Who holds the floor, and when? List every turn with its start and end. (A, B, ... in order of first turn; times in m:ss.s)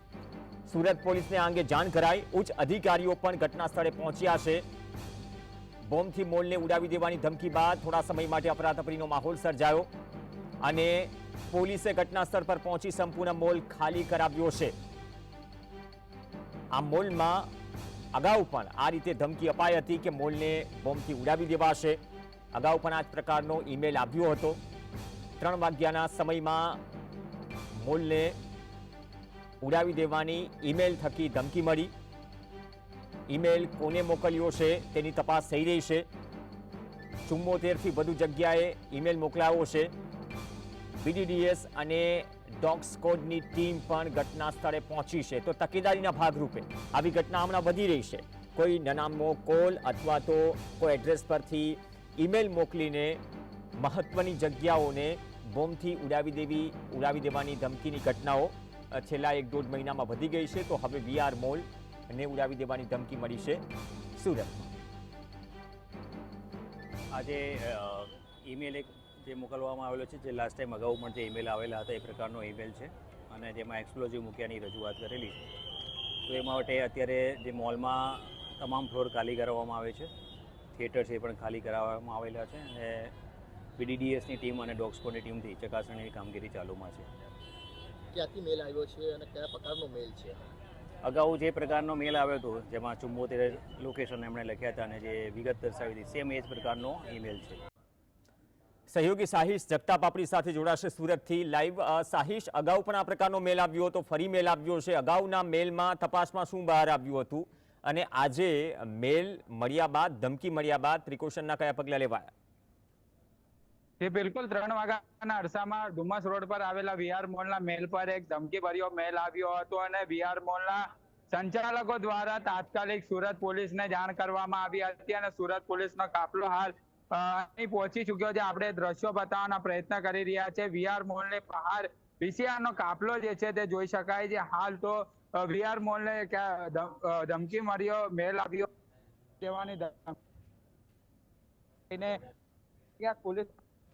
0:00.7-0:04.6 A
0:05.8-0:09.9 A
0:10.6-0:14.8 A
0:16.7-0:17.5 A
0:18.1-0:22.0 A
0:22.5-0:24.6 A
0:25.4-0:26.8 A
0:27.7-0:28.4 A
0:29.6-0:31.9 A
0:33.3-0:36.0 A
0:37.2-0:39.9 A
0:41.0-0:53.2 A
0:53.8-1:03.6 A
1:04.1-1:04.7 A
1:07.1-1:15.5 B
1:16.2-1:20.1 B
1:20.7-1:23.1 B
1:23.8-1:27.1 B
1:28.1-1:30.4 C
1:31.0-1:37.6 B
1:38.9-1:52.3 A
1:54.0-2:18.7 D
2:19.4-2:20.2 D
2:21.9-2:22.2 D
2:23.0-2:23.5 D